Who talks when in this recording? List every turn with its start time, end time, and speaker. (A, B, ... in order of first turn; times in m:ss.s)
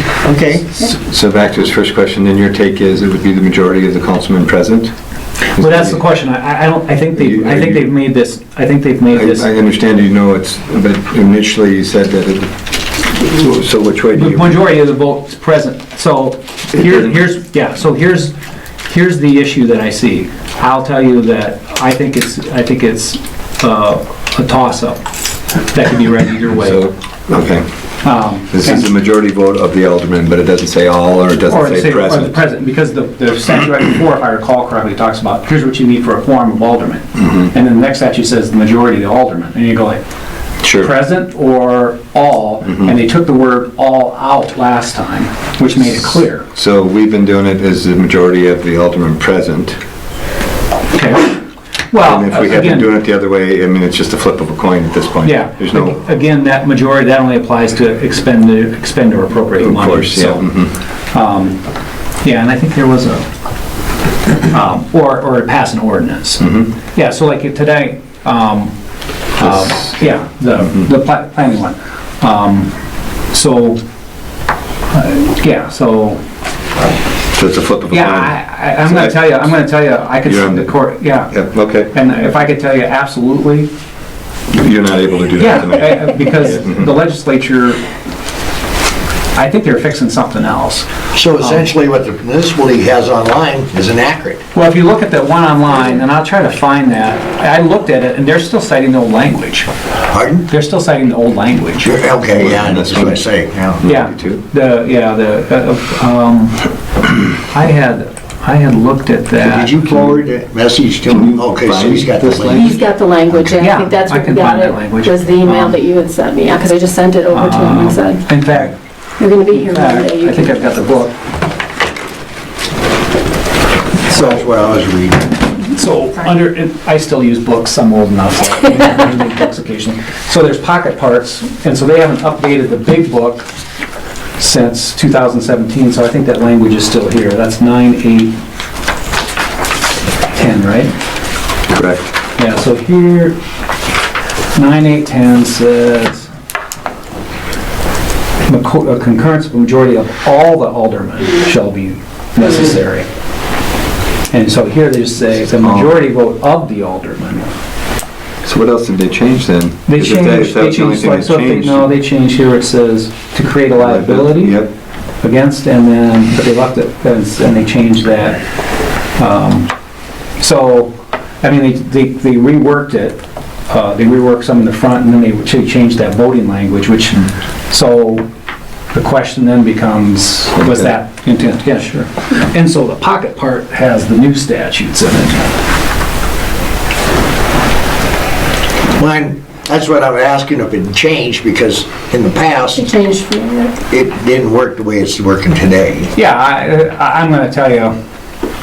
0:00.2-0:00.7 A
0:00.8-0:04.9 B
0:05.5-0:06.0 B
0:05.5-0:09.5 C
0:07.2-0:07.9 B
0:09.1-0:14.6 B
0:14.1-0:18.3 C
0:16.8-0:17.2 B
0:18.8-0:25.0 C
0:25.6-0:26.9 C
0:26.6-0:27.6 B
0:28.0-0:28.9 C
0:28.5-0:32.4 B
0:31.5-0:40.0 C
0:40.6-0:40.9 B
0:40.8-0:46.5 C
0:46.5-0:49.8 B
0:50.9-0:51.4 C
0:51.9-0:52.9 C
0:52.0-0:56.0 B
0:55.2-1:00.4 C
0:59.6-1:00.7 B
1:01.1-1:01.6 C
1:02.2-1:03.2 C
1:04.5-1:08.7 C
1:06.4-1:06.7 B
1:09.4-1:12.7 C
1:09.4-1:10.1 B
1:13.3-1:13.8 C
1:14.9-1:16.2 C
1:17.3-1:19.6 B
1:17.9-1:21.3 C
1:20.2-1:21.9 B
1:21.9-1:23.7 C
1:24.5-1:26.9 B
1:25.4-1:27.8 C
1:29.3-1:30.9 C
1:31.2-1:34.4 A
1:31.4-1:31.6 C
1:34.5-1:39.7 C
1:40.1-1:40.4 A
1:40.5-1:42.0 C
1:41.8-1:43.8 A
1:42.4-1:43.2 B
1:43.8-1:44.4 B
1:43.8-1:46.6 C
1:47.3-1:50.2 C
1:49.5-1:52.6 A
1:51.1-1:52.9 B
1:52.5-1:58.2 D
1:53.6-1:55.8 C
1:57.3-1:58.8 C
1:59.2-2:00.7 D
1:59.5-2:01.1 C
2:04.1-2:05.2 A
2:05.7-2:13.5 C
2:14.4-2:18.3 C
2:20.3-2:20.9 C
2:21.7-2:22.1 B
2:22.4-2:23.4 C
2:24.5-2:26.3 C
2:28.4-2:33.1 C
2:34.3-2:37.5 C
2:35.6-2:36.0 B
2:38.4-2:41.9 B
2:39.9-2:44.6 C
2:43.8-2:44.7 B
2:45.2-2:48.4 C
2:49.2-2:49.7 C
2:50.4-2:58.2 C
2:58.9-3:05.5 C
3:00.6-3:00.9 B
3:09.0-3:12.8 A
3:12.8-3:13.7 D
3:13.9-3:16.1 A
3:16.1-3:17.9 C